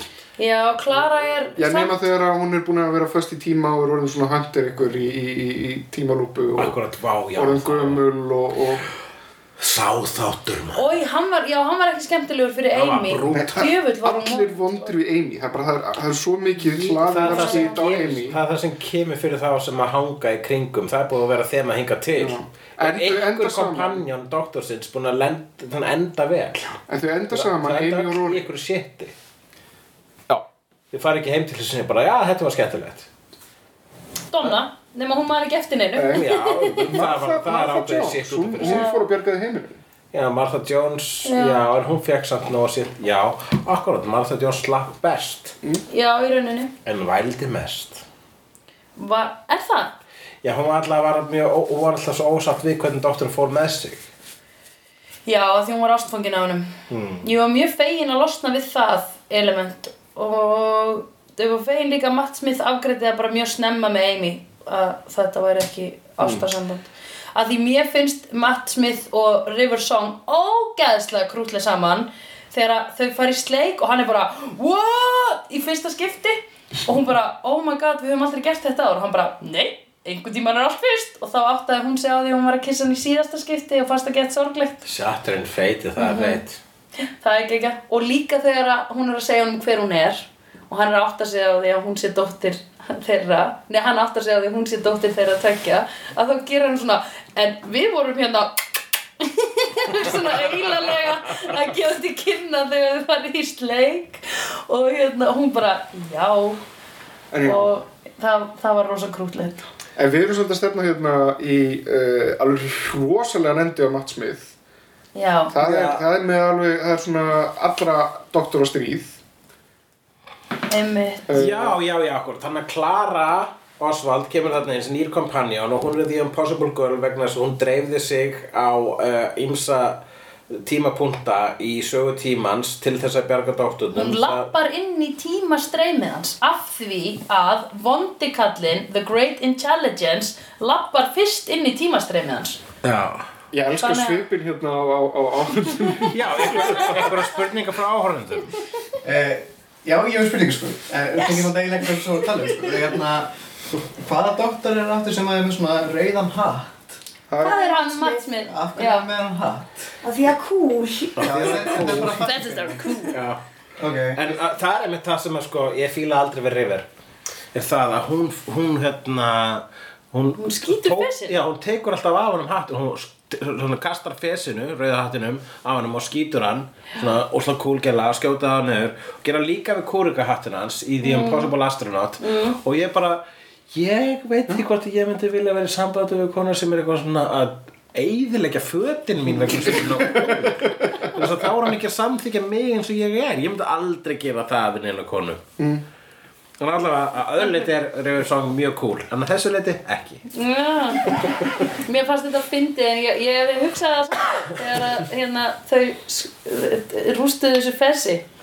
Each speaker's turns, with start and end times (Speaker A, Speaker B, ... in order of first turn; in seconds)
Speaker A: 0.4-2.0, 10.7-14.9, 17.2-17.8, 34.3-37.0, 38.6-39.0, 41.2-41.6, 45.9-46.7, 49.0-49.9, 55.2-84.8, 86.0-86.4, 87.0-106.6, 107.4-109.7, 115.1-115.5, 120.7-121.3, 133.9-142.6, 143.8-144.2, 157.4-159.1, 162.0-163.2, 170.4-171.4, 181.0-181.5, 182.2-182.6, 200.3-201.2, 201.7-208.2
Speaker B: 1.5-6.8, 7.3-8.8, 13.3-18.4, 22.1-24.0, 26.9-28.4, 35.9-36.3, 36.9-39.8, 107.3-107.7, 110.0-114.5, 115.5-119.2, 121.3-121.8, 143.5-147.1, 157.3-157.6, 161.6-162.2, 189.3-191.1, 195.6-195.8
Speaker C: 6.5-8.0, 9.6-10.8, 12.7-13.5, 16.6-26.7, 27.3-29.1, 30.9-33.1, 36.1-38.9, 40.1-45.5, 46.8-48.0, 50.4-54.0, 56.9-57.3, 84.8-86.6, 115.6-116.0, 121.3-134.5, 142.8-143.3, 146.1-148.6, 161.2-162.1, 163.1-163.4, 164.1-166.9, 167.5-195.4, 196.6-200.3
Speaker D: 149.0-153.3, 154.0-156.9, 158.4-159.8, 161.2-162.9, 163.8-164.2
Speaker E: 157.4-158.3, 160.0-161.4